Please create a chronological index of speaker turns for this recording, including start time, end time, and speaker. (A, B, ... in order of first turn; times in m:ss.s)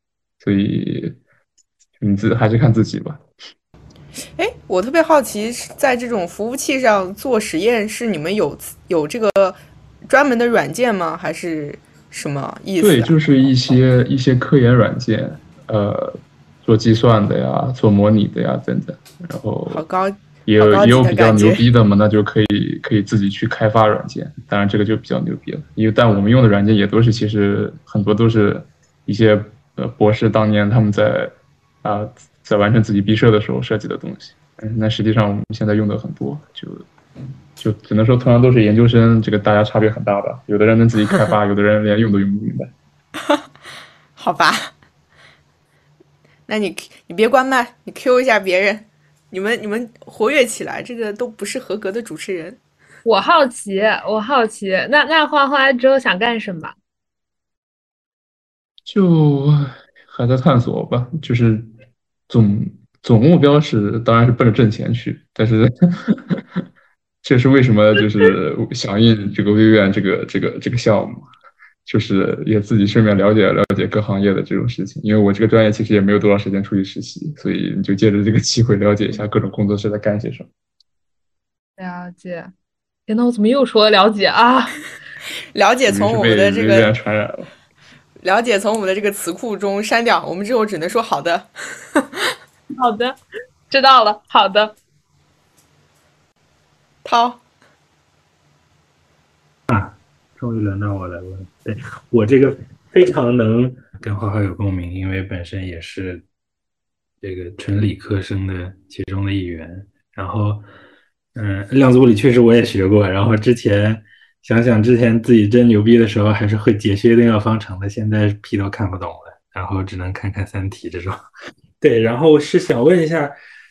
0:00.4-0:01.2 A
0:02.0-0:03.2 A
0:04.4-0:13.2 B
0:12.8-0:19.8 A
0:19.7-0:21.7 B
0:20.5-0:36.8 A
0:37.6-0:42.7 A
0:44.2-0:44.7 B
0:46.5-0:52.6 B
0:53.0-0:56.7 C
0:58.9-1:01.7 A
1:02.3-1:06.6 A
1:07.2-1:11.2 A
1:11.9-1:20.5 A
1:21.8-1:22.5 C
1:23.1-1:24.8 C
1:25.6-1:26.9 B
1:25.8-1:27.5 A
1:28.2-1:32.4 B
1:32.8-1:33.2 C
1:33.7-1:34.7 C
1:37.0-1:37.4 B
1:39.7-1:46.2 D
1:47.2-1:50.6 D
1:51.4-2:01.2 D
2:01.8-2:03.4 D